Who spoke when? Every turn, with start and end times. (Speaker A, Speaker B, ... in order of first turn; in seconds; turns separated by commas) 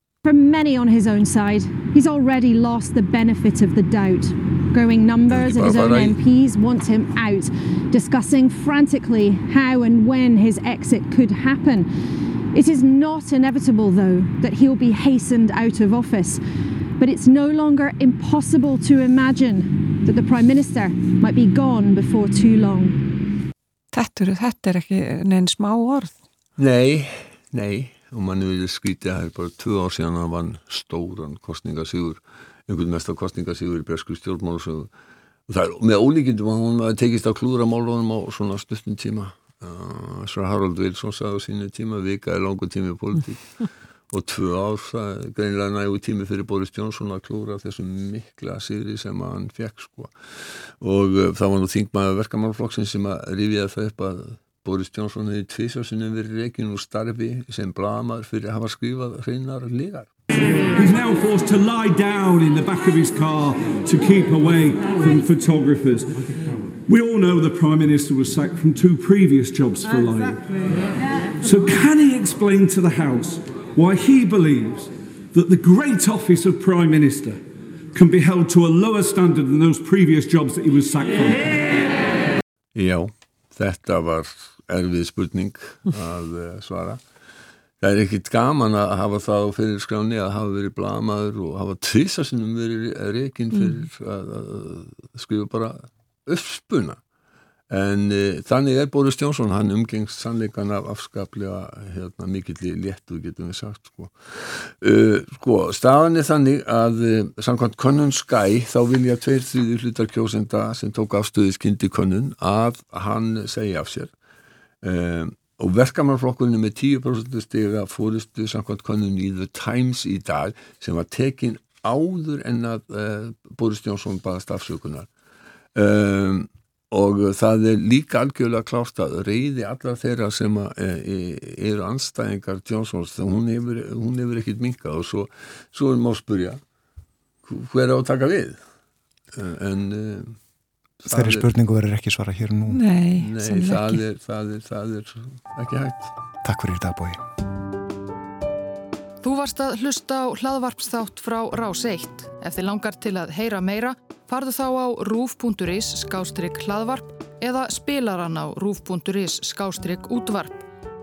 Speaker A: 0.2-11.9, Speaker B: 5.3-6.2, Speaker A: 12.5-16.4, Speaker A: 17.0-23.0, Speaker C: 23.9-26.1, Speaker B: 26.6-34.9, Speaker B: 35.5-43.5, Speaker B: 44.1-50.1, Speaker B: 50.8-60.1, Speaker D: 60.8-66.1, Speaker D: 66.9-70.3, Speaker D: 71.5-77.4, Speaker D: 77.9-81.6, Speaker B: 82.8-87.0, Speaker B: 87.8-97.0, Speaker B: 97.7-114.1, Speaker B: 114.8-125.1, Speaker B: 125.8-136.6, Speaker B: 137.4-138.6, Speaker B: 139.3-140.3, Speaker B: 141.0-141.5, Speaker E: 141.1-142.8, Speaker C: 142.8-143.8, Speaker B: 143.2-146.1, Speaker E: 146.4-147.2, Speaker F: 149.2-160.7